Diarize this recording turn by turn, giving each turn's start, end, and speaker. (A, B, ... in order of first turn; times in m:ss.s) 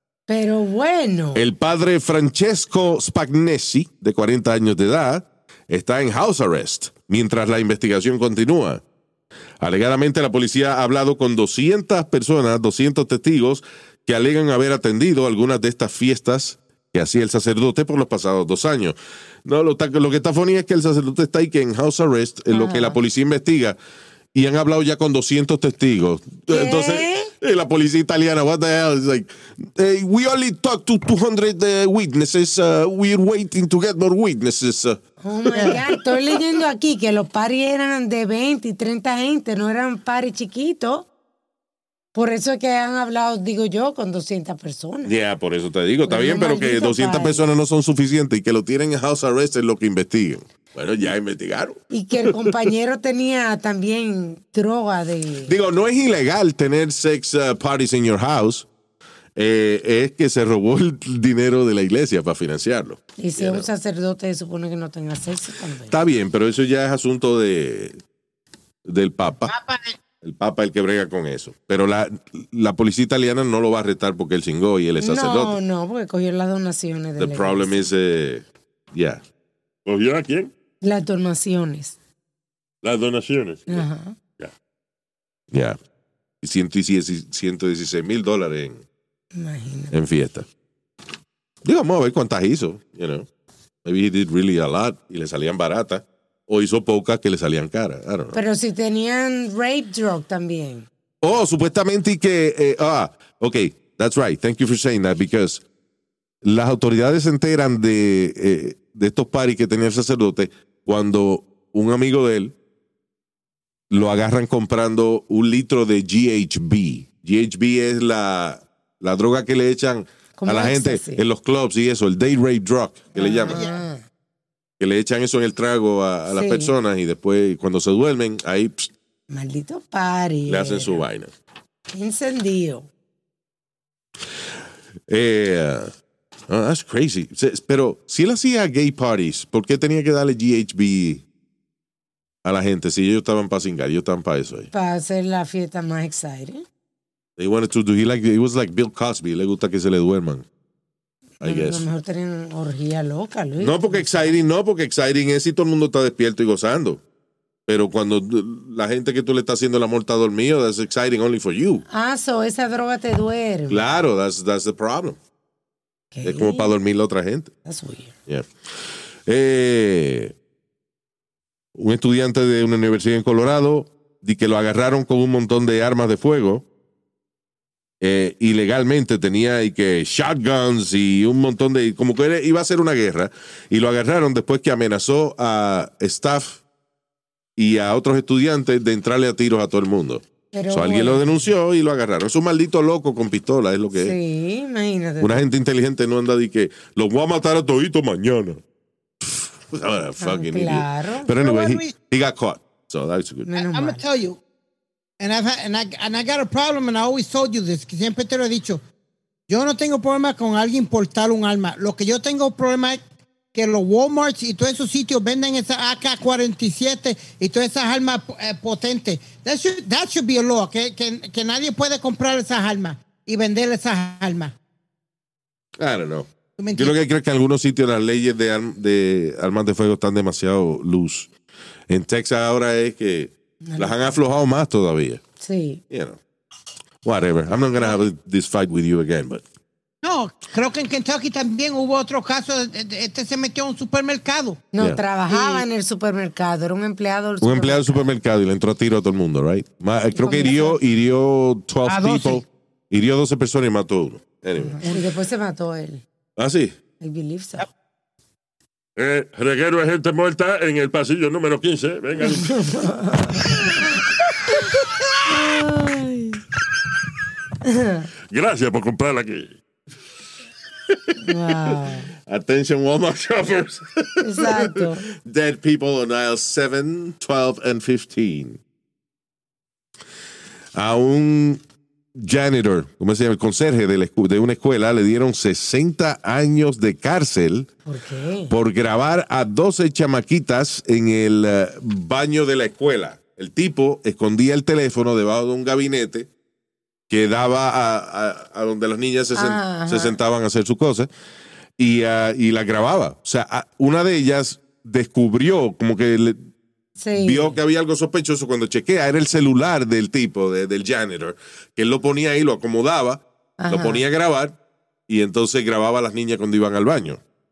0:00.3-0:01.4 A
0:01.3-0:08.8 B
0:09.6-0:23.8 B
0:22.5-0:23.0 A
0:24.3-0:35.0 B
0:26.5-0:27.3 A
0:35.2-0:41.1 A
0:35.5-0:35.9 B
0:42.1-0:45.1 A
0:45.0-0:52.7 B
0:46.0-0:47.5 A
0:51.9-0:55.5 A
0:55.4-0:58.7 B
0:59.4-1:03.7 B
1:03.2-1:06.0 A
1:05.9-1:08.0 B
1:08.8-1:09.5 B
1:09.4-1:10.0 C
1:10.2-1:15.6 B
1:15.0-1:17.9 A
1:17.2-1:19.2 B
1:19.8-1:20.5 D
1:20.8-1:21.9 A
1:22.8-1:23.8 D
1:23.7-1:24.2 A
1:25.5-1:25.8 B
1:26.4-1:28.8 B
1:29.3-1:29.9 A
1:29.9-1:30.5 B
1:31.6-1:33.3 B
1:33.8-1:38.4 B
1:38.3-1:40.9 A
1:41.2-1:45.6 B
1:46.4-1:52.5 B
1:53.9-2:03.6 B
2:00.4-2:01.2 A
2:03.1-2:04.0 A
2:03.4-2:03.8 C
2:04.8-2:08.9 B
2:06.3-2:06.7 A
2:09.3-2:11.0 A
2:10.5-2:11.3 B
2:11.9-2:12.9 A
2:15.1-2:15.9 B
2:16.5-2:21.2 B
2:22.4-2:24.7 B
2:24.7-2:26.6 A
2:27.4-2:30.4 B
2:31.4-2:34.2 A
2:31.4-2:31.8 B
2:33.6-2:37.0 B
2:37.7-2:41.8 B
2:41.9-2:43.8 A
2:43.7-2:45.2 B
2:46.1-2:46.7 A
2:46.2-2:47.5 B
2:47.6-2:48.1 A
2:49.2-2:50.3 B
2:51.7-2:56.6 B
2:58.0-3:06.6 B
3:07.6-3:14.2 B
3:10.5-3:11.4 A
3:13.9-3:15.4 A
3:15.2-3:18.6 B
3:19.2-3:23.5 B
3:20.2-3:21.3 A
3:21.3-3:21.9 C
3:23.4-3:24.0 A
3:23.6-3:24.4 C
3:25.2-3:28.8 C
3:29.5-3:33.0 C
3:33.5-3:44.6 C
3:45.8-3:51.3 B
3:46.6-3:47.0 C
3:51.9-3:55.2 B
3:53.6-3:54.0 A
3:55.4-3:55.8 A
3:55.9-3:56.2 B
3:57.0-3:59.4 B
4:00.0-4:04.6 C
4:04.7-4:08.1 A
4:05.3-4:05.6 C
4:07.4-4:14.8 B
4:10.1-4:10.8 A
4:11.8-4:12.4 C
4:14.6-4:16.0 A
4:16.4-4:16.8 B
4:17.0-4:17.7 A
4:19.0-4:22.6 D
4:22.2-4:24.0 A
4:25.3-4:26.4 A
4:27.6-4:28.1 A
4:28.3-4:29.6 D
4:31.2-4:32.1 A
4:32.3-4:38.6 B
4:34.2-4:35.1 A
4:40.7-4:41.6 B
4:42.1-4:47.7 B
4:47.8-4:48.5 A
4:48.5-4:56.3 B
4:57.1-5:01.1 B
4:59.3-5:00.2 A
5:01.8-5:06.4 B
5:07.0-5:07.6 A
5:07.1-5:14.6 B
5:13.6-5:14.0 A
5:15.1-5:17.2 B